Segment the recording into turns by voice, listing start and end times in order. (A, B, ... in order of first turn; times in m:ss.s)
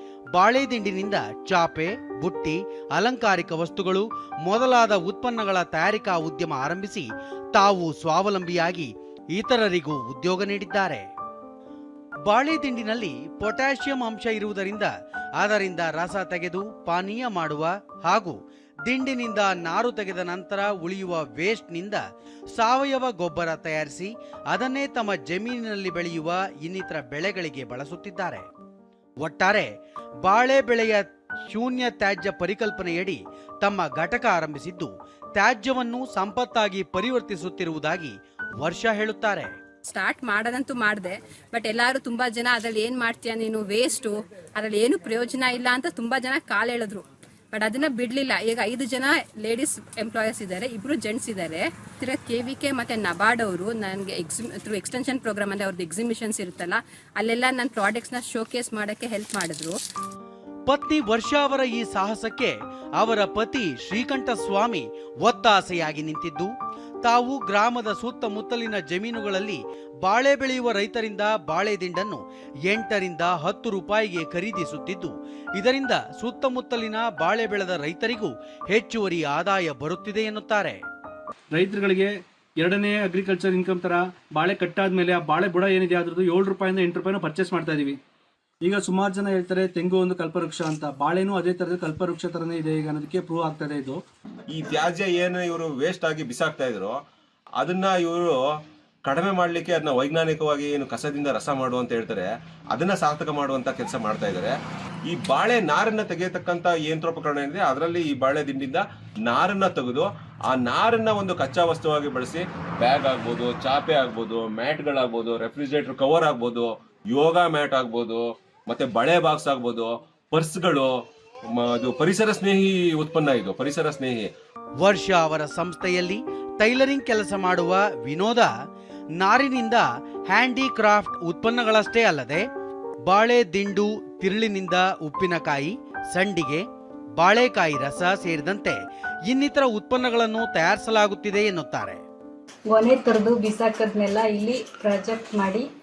0:00.4-0:11.1 A
0:12.3-0:22.0 A
0:22.5-0:28.5 A
0:29.2-0:29.7 A
0:30.2-0:39.5 A
0:39.9-0:59.8 B
1:00.7-1:06.5 A
1:07.0-1:20.8 A
1:21.5-1:28.0 C
1:28.6-1:34.0 C
1:34.5-1:37.0 D
1:37.6-1:38.4 D
1:39.0-1:44.6 D
1:45.1-2:00.9 D
2:01.5-2:04.3 D
2:04.8-2:08.5 A
2:09.2-2:12.4 A
2:13.1-2:16.6 A
2:17.2-2:18.8 A
2:19.3-2:22.0 A
2:22.7-2:25.7 E